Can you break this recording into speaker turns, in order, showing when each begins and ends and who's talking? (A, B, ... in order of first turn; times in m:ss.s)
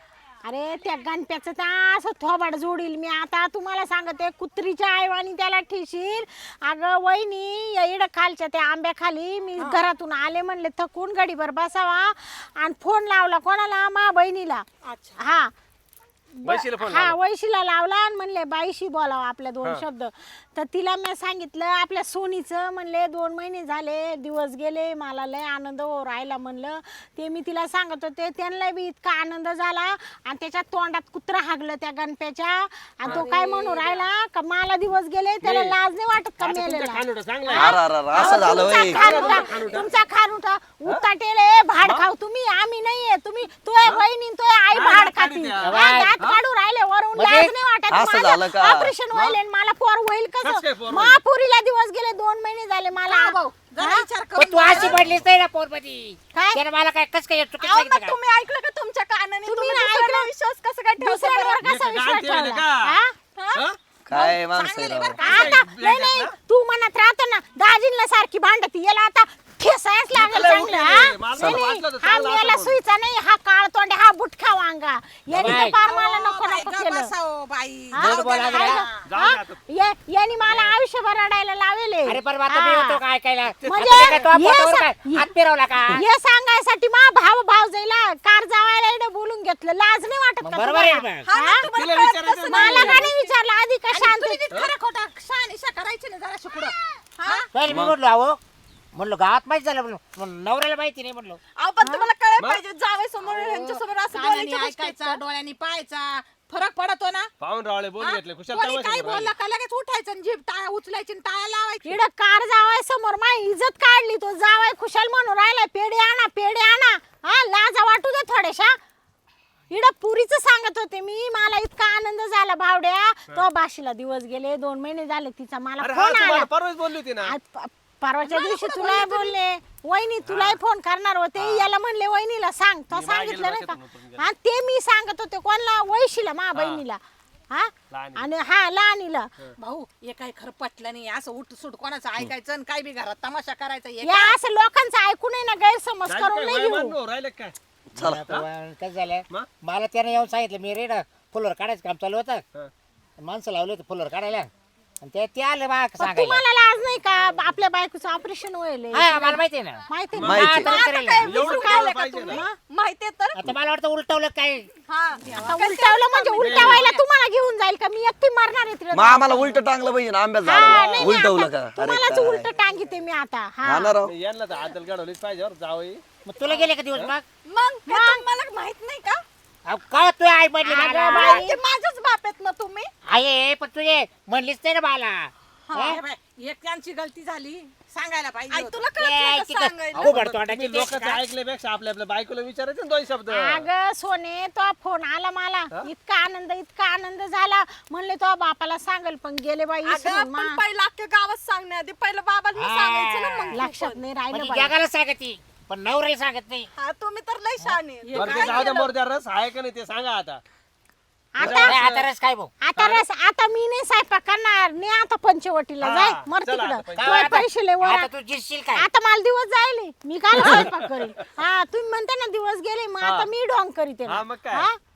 0:00.4-0:14.6 A
0:14.9-0:15.2 B
0:15.2-0:15.5 A
0:16.4-0:54.0 A
0:16.4-0:17.2 C
0:33.0-0:34.0 D
0:35.4-0:35.7 C
0:36.4-0:39.9 C
0:37.5-0:39.2 E
0:39.0-0:39.8 D
0:44.7-0:46.4 C
0:45.6-0:46.2 F
0:47.1-0:47.5 F
0:47.9-0:48.9 E
0:50.4-0:51.2 C
0:53.0-0:55.0 D
0:54.4-0:58.2 F
0:54.7-0:55.2 C
0:57.6-1:01.6 B
0:59.4-1:00.3 A
1:01.0-1:03.1 A
1:01.6-1:03.0 C
1:03.3-1:05.5 B
1:04.0-1:05.2 E
1:05.2-1:06.3 C
1:05.2-1:17.1 A
1:10.1-1:12.8 C
1:15.3-1:15.8 F
1:15.5-1:19.0 D
1:17.9-1:23.0 A
1:18.0-1:18.8 F
1:19.0-1:19.6 C
1:22.0-1:26.0 F
1:23.6-1:24.3 C
1:23.6-1:25.3 A
1:25.9-1:31.7 A
1:30.4-1:31.3 F
1:31.2-1:33.1 B
1:31.6-1:33.0 C
1:32.4-1:34.5 A
1:32.6-1:33.1 D
1:33.9-1:37.5 D
1:37.5-1:38.4 F
1:37.7-1:38.0 E
1:38.9-1:41.4 F
1:41.6-1:45.2 B
1:43.2-1:47.3 D
1:47.4-1:49.3 C
1:48.0-1:52.0 D
1:51.8-1:58.8 A
1:59.7-2:06.5 A
2:05.8-2:07.3 C
2:07.2-2:17.0 A
2:08.2-2:09.3 B
2:10.2-2:10.6 C
2:11.4-2:11.7 C
2:12.9-2:14.2 C
2:16.5-2:16.8 C
2:17.5-2:19.3 A
2:17.9-2:18.2 C
2:19.6-2:24.4 D
2:24.0-2:26.9 A
2:26.0-2:27.5 C
2:28.0-2:28.3 E
2:28.0-2:32.4 F
2:33.2-2:34.5 F
2:35.0-2:36.4 F
2:36.0-2:42.5 A
2:38.9-2:41.3 F
2:40.1-2:40.6 C
2:40.2-2:40.7 E
2:40.6-2:43.5 B
2:41.2-2:42.4 C
2:43.3-2:44.7 F
2:44.9-2:46.8 B
2:45.2-2:47.0 D
2:45.4-2:49.6 A
2:46.4-2:46.8 C
2:48.9-2:52.5 E
2:50.4-2:54.0 A
2:50.6-2:51.2 C
2:53.6-2:54.1 E
2:54.0-2:56.0 C
2:56.2-2:57.2 F
2:57.4-2:59.2 B
2:57.8-2:58.2 A
2:59.6-3:01.5 F
3:00.7-3:01.5 D
3:00.8-3:02.9 B
3:00.8-3:01.5 A
3:03.0-3:06.0 F
3:05.7-3:08.8 D
3:08.5-3:10.1 B
3:09.0-3:11.1 F
3:10.0-3:13.6 C
3:10.8-3:11.1 D
3:13.3-3:20.6 A
3:19.8-3:24.0 B
3:22.5-3:23.6 F
3:23.5-3:24.7 A
3:24.3-3:26.7 F
3:26.8-3:28.9 B
3:28.0-3:28.9 D
3:28.1-3:30.4 C
3:31.4-3:31.8 A
3:31.4-3:32.0 C
3:31.4-3:32.5 F
3:32.6-3:38.1 A
3:32.8-3:33.0 C
3:35.8-3:37.4 C
3:37.0-3:38.9 F
3:38.7-3:44.8 A
3:40.3-3:40.9 C
3:43.0-3:43.3 C
3:44.1-3:44.7 C